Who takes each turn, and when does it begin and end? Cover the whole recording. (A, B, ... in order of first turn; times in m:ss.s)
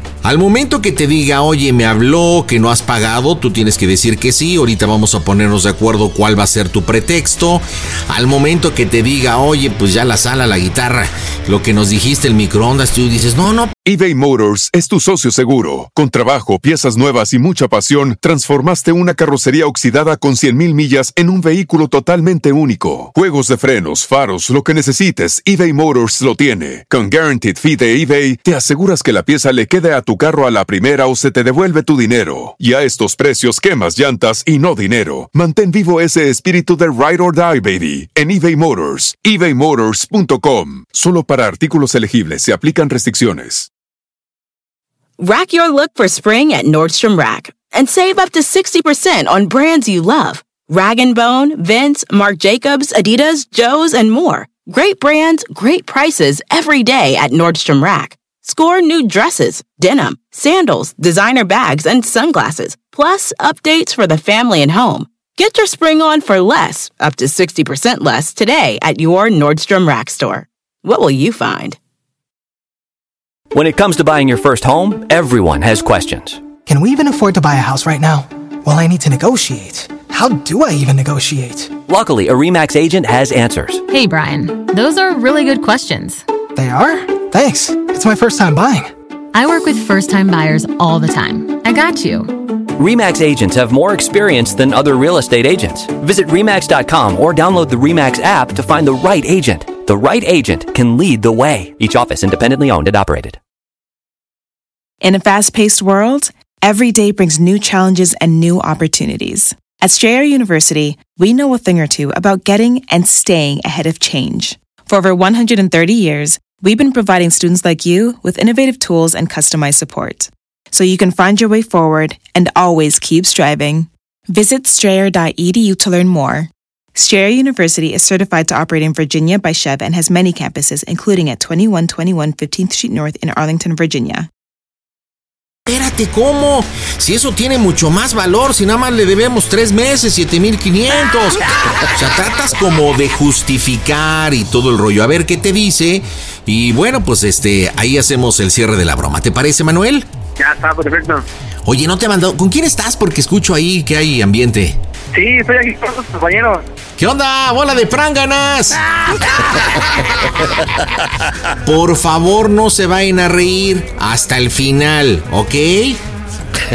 0:00.2-0:13.7 A
0:13.8-0:43.7 B
0:45.2-1:11.8 C
1:13.5-1:16.5 D
1:16.6-1:21.7 E
1:21.9-1:23.8 D
1:23.9-1:26.2 F
1:26.5-1:28.9 E
1:29.3-1:32.4 F
1:32.8-1:43.4 D
1:45.0-2:14.3 G
2:15.7-2:21.4 A
2:21.9-2:30.1 A
2:30.4-2:31.2 H
2:31.6-2:34.8 A
2:35.1-2:36.6 H
2:37.0-2:38.8 A
2:41.6-2:46.0 A